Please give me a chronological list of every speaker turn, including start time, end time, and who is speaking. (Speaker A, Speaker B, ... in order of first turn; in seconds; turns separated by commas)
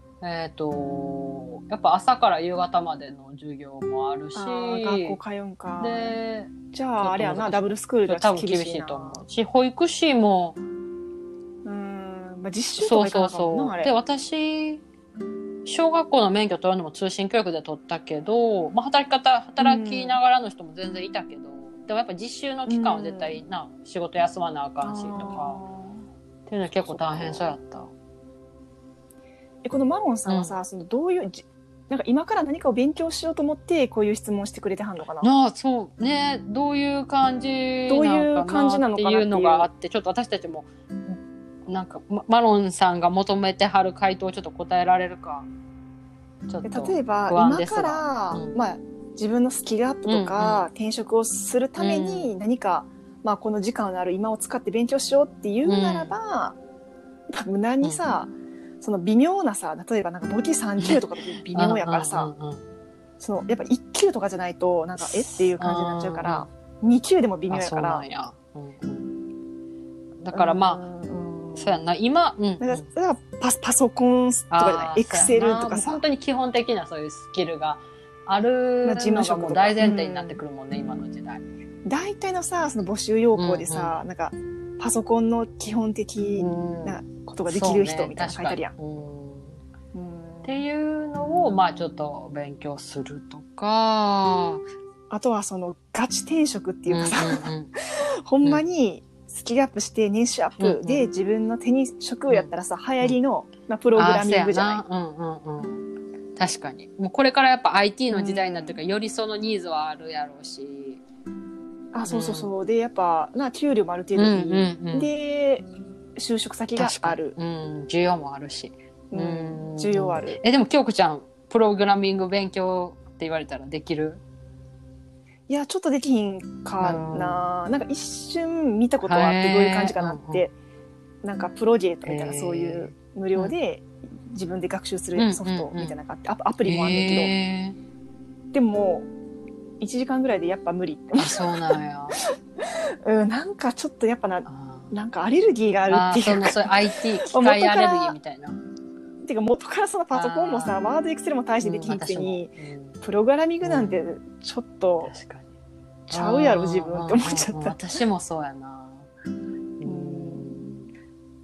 Speaker A: 0.2-5.2, Speaker B: 4.3-6.1, Speaker A: 5.8-10.6, Speaker B: 6.7-9.2, Speaker B: 11.6-13.9, Speaker A: 12.8-14.8, Speaker A: 15.6-25.6, Speaker B: 19.6-20.2, Speaker B: 22.7-23.4, Speaker B: 24.8-26.0, Speaker A: 26.5-27.9, Speaker B: 26.8-27.5, Speaker B: 29.6-35.3, Speaker A: 30.3-30.6, Speaker A: 35.2-45.5, Speaker B: 37.9-39.7, Speaker A: 46.5-48.6, Speaker B: 46.6-56.6, Speaker A: 50.0-50.7, Speaker A: 51.8-52.3, Speaker A: 55.6-56.1, Speaker B: 57.3-58.3, Speaker B: 58.8-62.3, Speaker A: 61.5-62.6, Speaker B: 63.2-68.0, Speaker A: 65.0-66.5, Speaker A: 67.5-69.1, Speaker A: 70.2-70.8, Speaker B: 70.3-71.8, Speaker A: 71.5-72.9, Speaker B: 72.6-76.0, Speaker A: 74.5-81.4, Speaker B: 78.8-80.4, Speaker B: 81.8-88.7, Speaker A: 83.3-84.0, Speaker A: 86.3-89.6, Speaker B: 89.9-90.6, Speaker A: 90.4-94.6, Speaker B: 95.1-104.8, Speaker A: 96.9-97.7, Speaker A: 100.6-101.1, Speaker A: 102.3-103.2, Speaker A: 103.9-111.0, Speaker B: 108.1-108.8, Speaker B: 111.9-117.3, Speaker A: 112.0-112.5, Speaker A: 114.2-115.1, Speaker A: 116.8-124.2, Speaker B: 119.1-120.4, Speaker B: 125.5-130.5, Speaker A: 126.8-127.5, Speaker A: 129.0-130.5, Speaker B: 131.2-137.3, Speaker A: 132.0-133.5, Speaker A: 135.2-136.0, Speaker A: 136.6-137.8, Speaker B: 138.5-139.1, Speaker B: 139.8-148.2, Speaker A: 141.2-142.2, Speaker A: 144.4-144.9, Speaker A: 145.9-148.6, Speaker B: 149.2-155.1, Speaker A: 150.1-150.8, Speaker A: 151.6-153.0, Speaker A: 153.6-154.0, Speaker A: 155.0-155.5, Speaker B: 156.1-157.8, Speaker A: 156.1-159.1, Speaker A: 159.8-160.8, Speaker B: 159.8-160.7